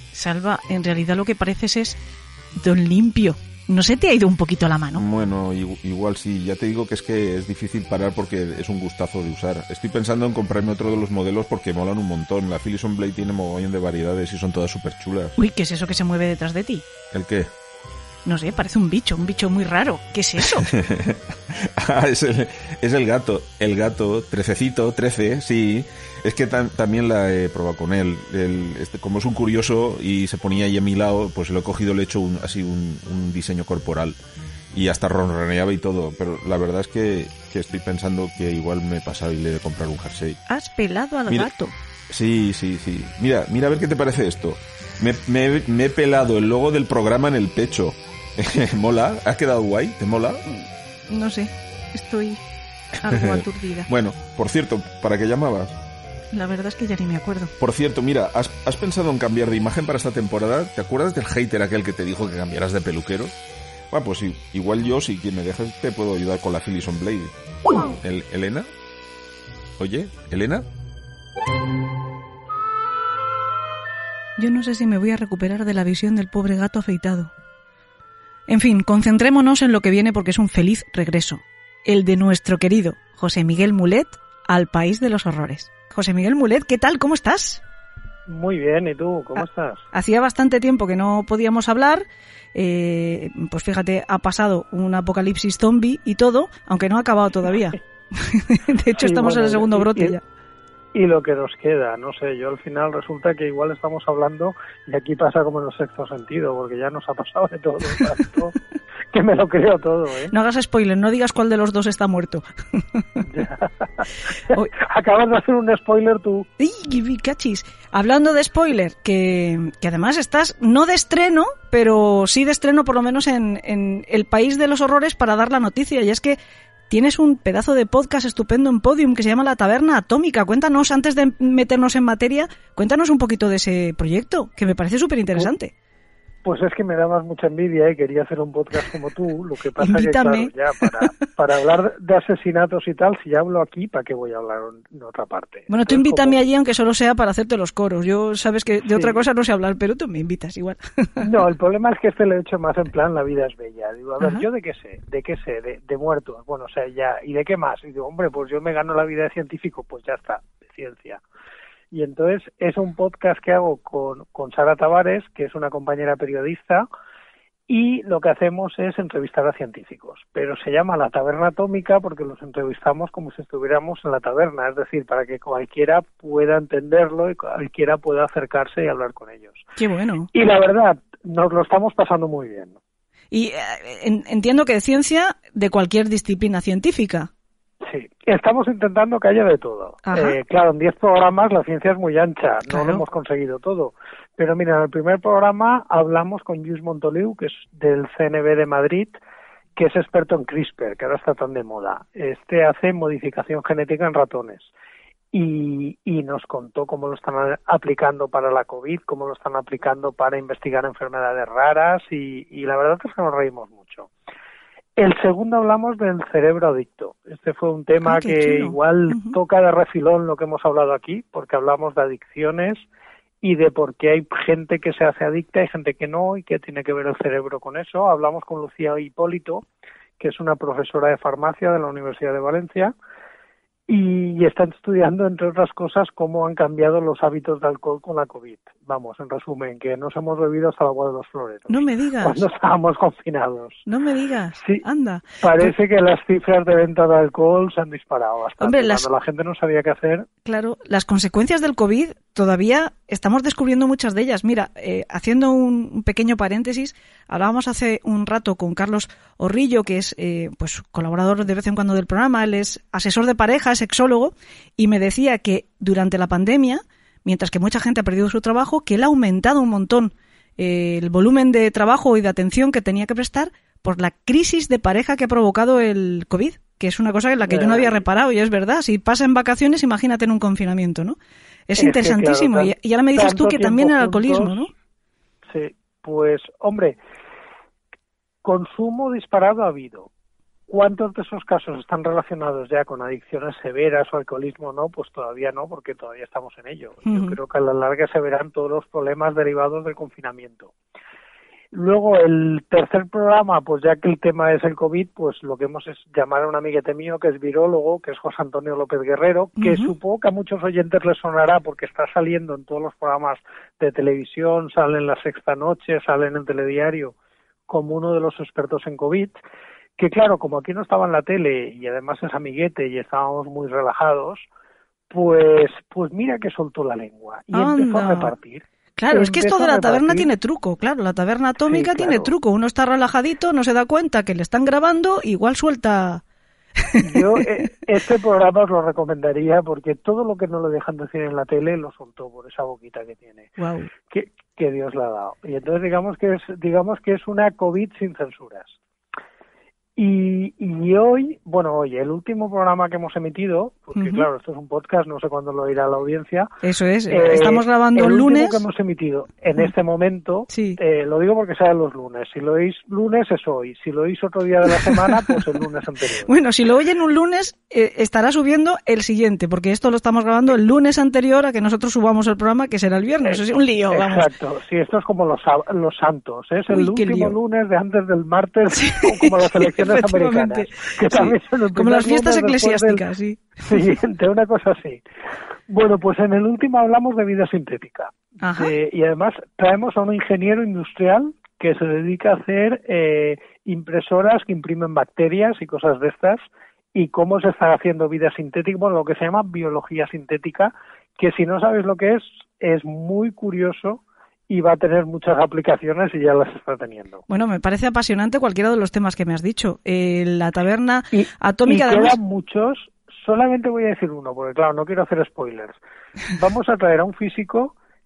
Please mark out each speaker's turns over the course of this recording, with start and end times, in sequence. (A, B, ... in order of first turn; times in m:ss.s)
0:00.1-0:02.0 A
0:02.6-0:05.0 A
0:05.0-0:15.4 B
0:15.4-0:16.8 A
0:17.1-0:17.5 B
0:18.2-0:20.7 A
0:20.6-0:34.2 B
0:34.7-0:40.4 B
0:40.5-0:41.7 A
0:42.1-0:50.4 B
0:51.1-0:52.4 A
0:53.0-0:53.9 A
0:53.1-0:55.8 B
0:56.3-0:57.5 A
0:57.6-1:03.3 B
1:03.9-1:08.7 B
1:09.8-1:10.6 B
1:14.4-1:17.3 A
1:18.5-1:27.6 A
1:28.3-1:29.8 C
1:29.4-1:40.2 A
1:39.0-1:40.2 C
1:40.9-1:48.6 C
1:49.1-1:50.3 C
1:50.3-1:53.2 A
1:53.2-1:56.4 C
1:56.6-2:06.4 A
2:06.9-2:15.7 A
2:16.4-2:26.4 C
2:19.8-2:21.1 A
2:25.7-2:31.3 A
2:28.9-2:29.2 C
2:31.2-2:41.2 C
2:41.9-2:46.9 C
2:47.7-2:59.6 C
2:59.8-3:00.3 A
3:00.3-3:02.8 C
3:03.3-3:07.3 A
3:07.8-3:19.2 C
3:10.0-3:10.4 A
3:12.7-3:13.0 A
3:19.8-3:24.7 C
3:25.3-3:34.1 C
3:35.0-3:42.8 C
3:38.0-3:39.4 A
3:43.4-3:49.6 C
3:50.2-3:52.9 C
3:53.9-4:03.8 C
4:01.7-4:02.4 A
4:03.8-4:05.7 A
4:04.6-4:04.8 C
4:05.4-4:10.3 C
4:08.6-4:09.0 A
4:10.4-4:41.2 A
4:37.4-4:38.0 C
4:41.7-4:44.7 A
4:41.8-4:44.7 C
4:45.5-4:47.0 C
4:48.4-4:50.1 C
4:50.7-5:00.7 C
4:57.0-4:57.4 A
5:01.7-5:17.1 C
5:09.6-5:09.9 A
5:17.7-5:19.4 C
5:20.0-5:24.4 C
5:25.1-5:30.3 C
5:27.5-5:28.3 A
5:29.0-5:36.2 A
5:31.7-5:32.3 C
5:36.8-5:37.2 A
5:37.0-5:43.5 C
5:43.6-5:43.9 A
5:44.1-5:48.8 C
5:50.0-5:56.5 C
5:54.0-5:54.2 A
5:56.6-5:58.6 A
5:57.1-6:06.3 C
6:00.5-6:00.8 A
6:06.3-6:14.3 A
6:13.2-6:23.0 C
6:16.7-6:17.4 A
6:18.8-6:23.9 A
6:23.6-6:25.0 C
6:25.7-6:47.2 C
6:28.4-6:28.7 A
6:47.3-6:52.2 A
6:51.1-6:55.8 C
6:56.3-6:57.7 C